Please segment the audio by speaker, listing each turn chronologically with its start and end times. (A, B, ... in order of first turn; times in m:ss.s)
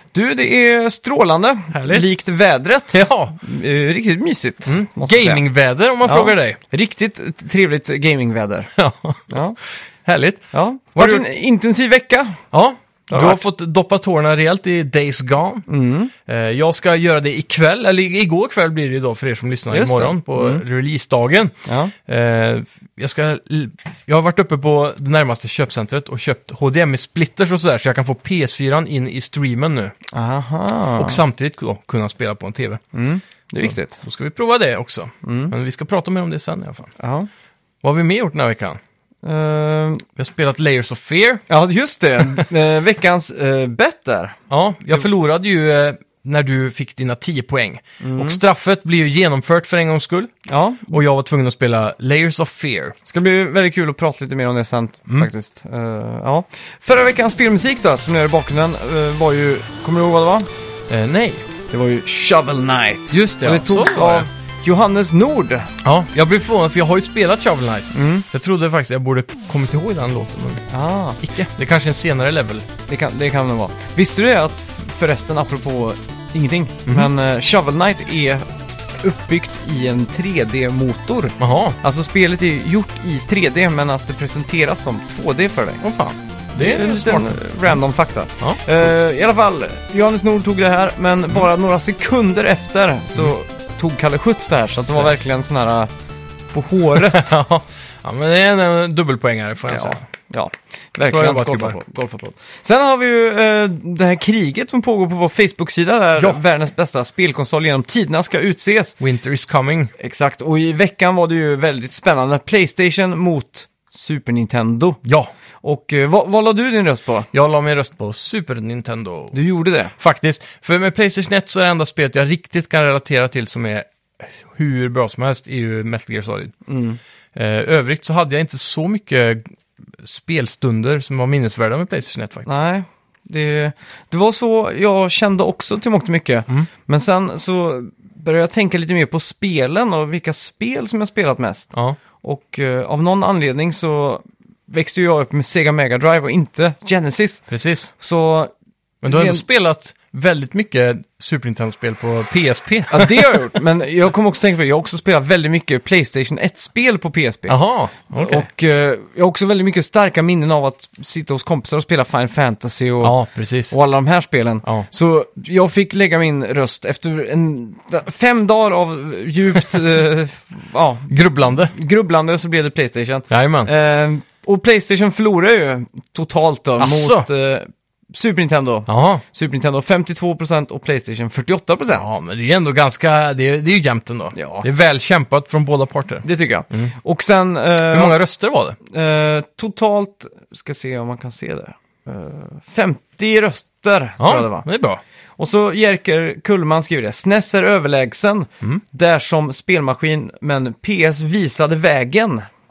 0:00.1-0:05.4 A
0:01.7-0:02.1 B
0:02.9-0:03.4 B
0:04.7-0:06.6 B
0:06.0-0:08.7 A
0:08.8-0:10.4 B
0:09.3-0:09.6 A
0:10.5-0:12.4 A
0:11.0-0:11.2 B
0:12.5-0:15.6 B
0:13.1-0:13.4 A
0:15.7-0:16.1 A
0:16.3-0:30.0 B
0:19.7-0:20.6 A
0:21.7-0:21.9 A
0:30.1-0:31.2 A
0:31.0-0:32.8 B
0:32.9-0:34.0 A
0:33.6-0:36.9 B
0:35.2-0:35.5 A
0:37.0-0:37.3 A
0:37.8-0:38.8 B
0:39.2-0:40.1 A
0:40.2-0:41.4 B
0:41.5-0:44.4 A
0:44.5-0:50.3 B
0:48.0-0:48.4 A
0:50.5-0:51.0 A
0:50.9-0:53.0 B
0:53.1-1:00.5 A
1:00.9-1:01.5 B
1:01.7-1:05.7 A
1:03.1-1:04.3 B
1:05.8-1:10.6 B
1:07.9-1:08.3 A
1:10.7-1:11.2 A
1:11.2-1:12.7 B
1:12.9-1:18.4 A
1:19.0-1:25.8 A
1:21.4-1:21.8 B
1:25.8-1:27.7 B
1:26.6-1:35.9 A
1:36.5-1:37.4 A
1:37.0-1:40.0 B
1:39.7-1:49.0 A
1:41.1-1:41.8 B
1:49.0-1:49.9 B
1:50.0-1:55.0 A
1:55.0-1:55.3 B
1:55.6-1:57.3 A
1:57.3-1:59.4 B
1:59.3-1:59.9 A
2:00.0-2:06.6 B
2:06.7-2:07.0 A
2:07.3-2:12.5 B
2:12.5-2:27.5 A
2:21.7-2:22.0 B
2:27.5-2:27.9 B
2:28.0-2:28.5 A
2:29.0-2:33.4 B
2:29.0-2:29.4 A
2:32.9-2:37.6 A
2:37.5-2:38.5 B
2:38.1-2:43.2 A
2:43.0-2:43.7 B
2:43.7-3:02.1 A
2:51.1-2:51.7 B
2:53.3-2:53.7 B
2:56.8-2:57.3 B
2:58.9-2:59.2 B
3:01.9-3:06.9 B
3:04.3-3:04.7 A
3:06.2-3:08.2 A
3:07.9-3:08.8 B
3:08.9-3:14.7 A
3:14.2-3:15.0 B
3:15.4-3:22.5 A